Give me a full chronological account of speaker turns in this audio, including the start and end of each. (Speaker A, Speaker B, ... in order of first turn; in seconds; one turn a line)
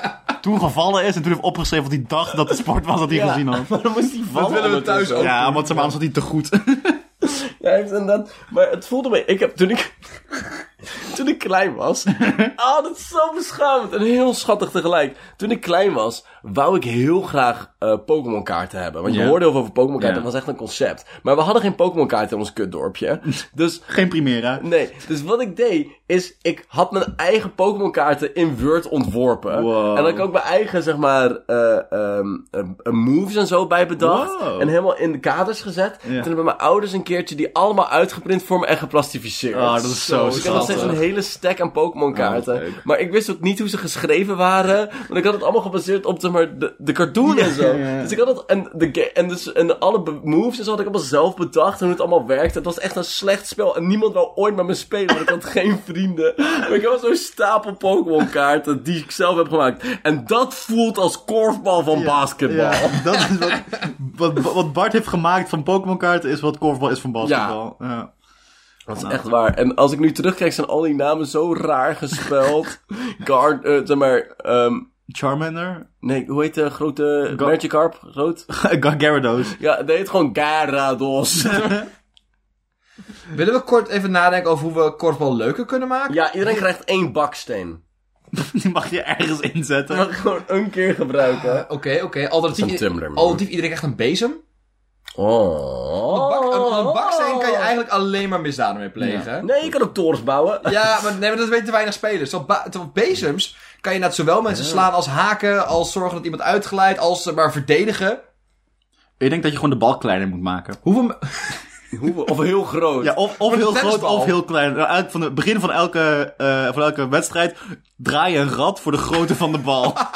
Speaker A: 0.4-3.9
Speaker B: 3.1-5.8
Speaker C: 4.3-5.9
Speaker A: 5.2-7.0
Speaker B: 7.2-23.8
Speaker A: 12.2-12.5
Speaker A: 19.1-19.4
Speaker A: 20.0-20.2
Speaker A: 23.9-24.6
Speaker B: 24.6-63.1
Speaker A: 29.5-30.2
Speaker A: 34.0-34.7
Speaker A: 39.5-41.0
Speaker C: 40.3-41.0
Speaker A: 42.1-42.8
Speaker A: 47.2-48.1
Speaker A: 61.9-68.1
Speaker B: 67.2-67.6
Speaker B: 68.9-74.9
Speaker A: 68.9-69.2
Speaker A: 75.1-75.9
Speaker B: 76.0-78.5
Speaker A: 77.3-77.6
Speaker A: 78.5-79.5
Speaker B: 79.5-81.9
Speaker C: 83.3-86.6
Speaker B: 86.1-87.8
Speaker A: 88.3-90.1
Speaker B: 89.9-91.7
Speaker C: 91.4-94.4
Speaker B: 92.5-93.4
Speaker B: 95.2-97.7
Speaker C: 96.1-99.7
Speaker A: 99.0-99.3
Speaker B: 99.4-100.8
Speaker C: 100.6-108.2
Speaker B: 104.5-104.8
Speaker A: 109.2-110.8
Speaker C: 110.8-111.5
Speaker B: 111.9-113.2
Speaker A: 113.0-120.0
Speaker C: 113.5-114.4